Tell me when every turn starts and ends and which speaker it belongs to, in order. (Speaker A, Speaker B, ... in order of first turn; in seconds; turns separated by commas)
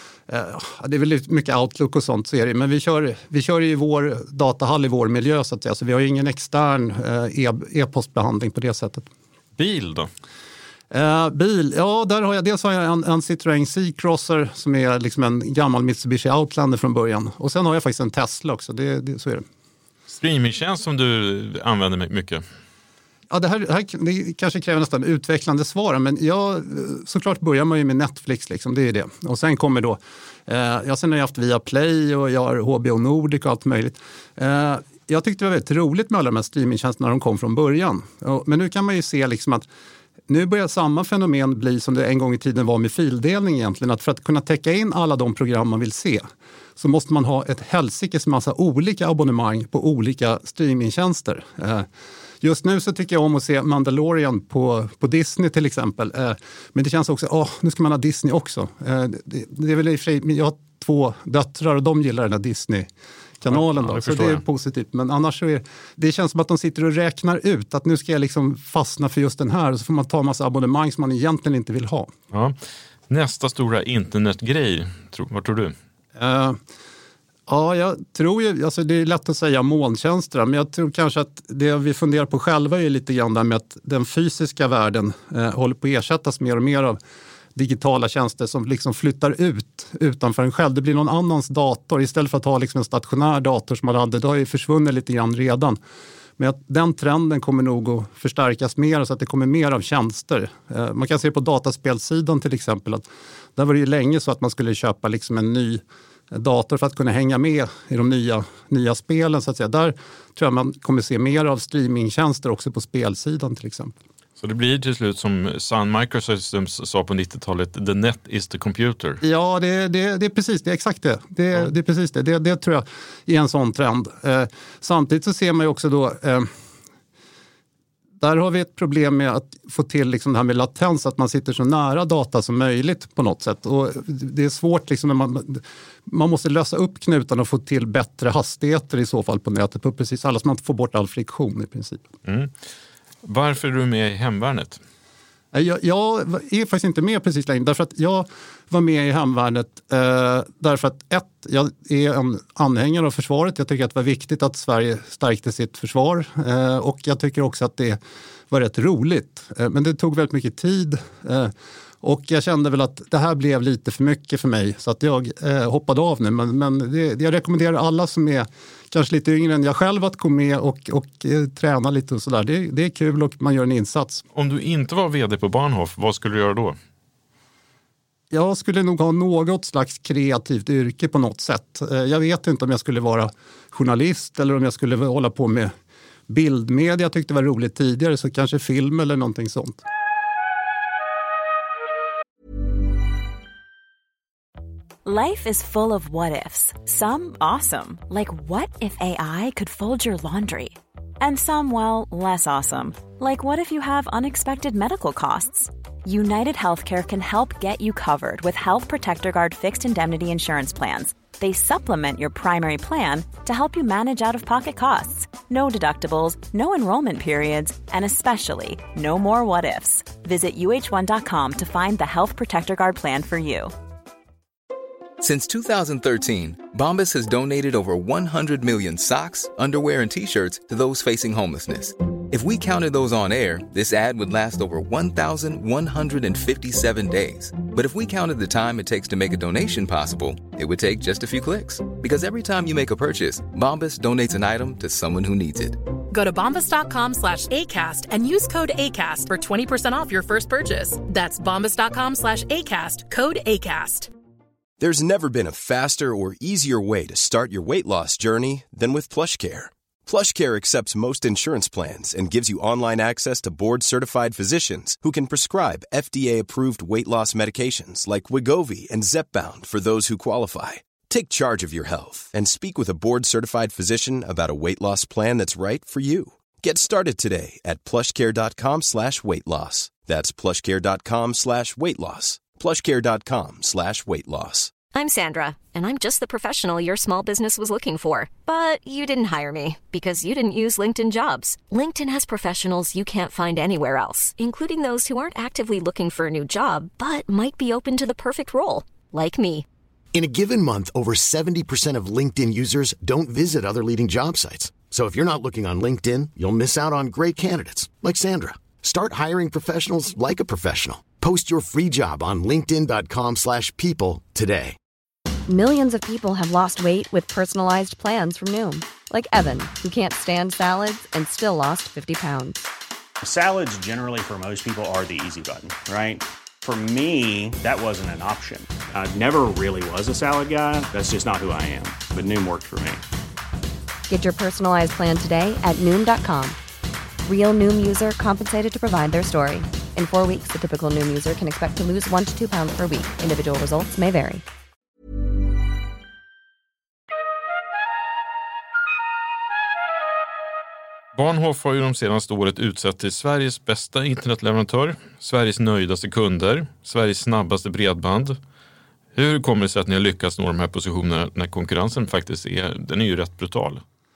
Speaker A: 0.3-9.1, Speaker B: 9.6-10.1, Speaker A: 10.9-19.4, Speaker B: 20.1-22.4, Speaker A: 23.3-39.7, Speaker A: 40.3-46.2, Speaker A: 46.8-51.9, Speaker A: 52.4-62.9, Speaker A: 63.4-72.1, Speaker B: 63.5-64.4, Speaker B: 72.3-72.6, Speaker B: 73.1-75.7, Speaker A: 76.2-76.6, Speaker A: 77.5-87.0, Speaker A: 87.5-95.8, Speaker A: 96.4-114.0, Speaker B: 114.4-119.2, Speaker A: 119.2-126.5, Speaker A: 128.2-142.0, Speaker B: 142.2-142.5, Speaker B: 143.2-144.8, Speaker A: 145.5-158.0, Speaker A: 158.5-174.2, Speaker B: 174.3-176.8, Speaker A: 178.3-185.7, Speaker A: 186.3-189.8, Speaker C: 195.1-223.7, Speaker D: 225.2-245.8, Speaker E: 246.1-254.1, Speaker F: 254.8-284.7, Speaker G: 284.9-299.7, Speaker H: 300.1-314.8, Speaker I: 315.5-322.6, Speaker J: 323.2-333.0, Speaker I: 334.1-336.6, Speaker I: 337.2-344.4, Speaker B: 351.1-358.4, Speaker B: 359.1-363.8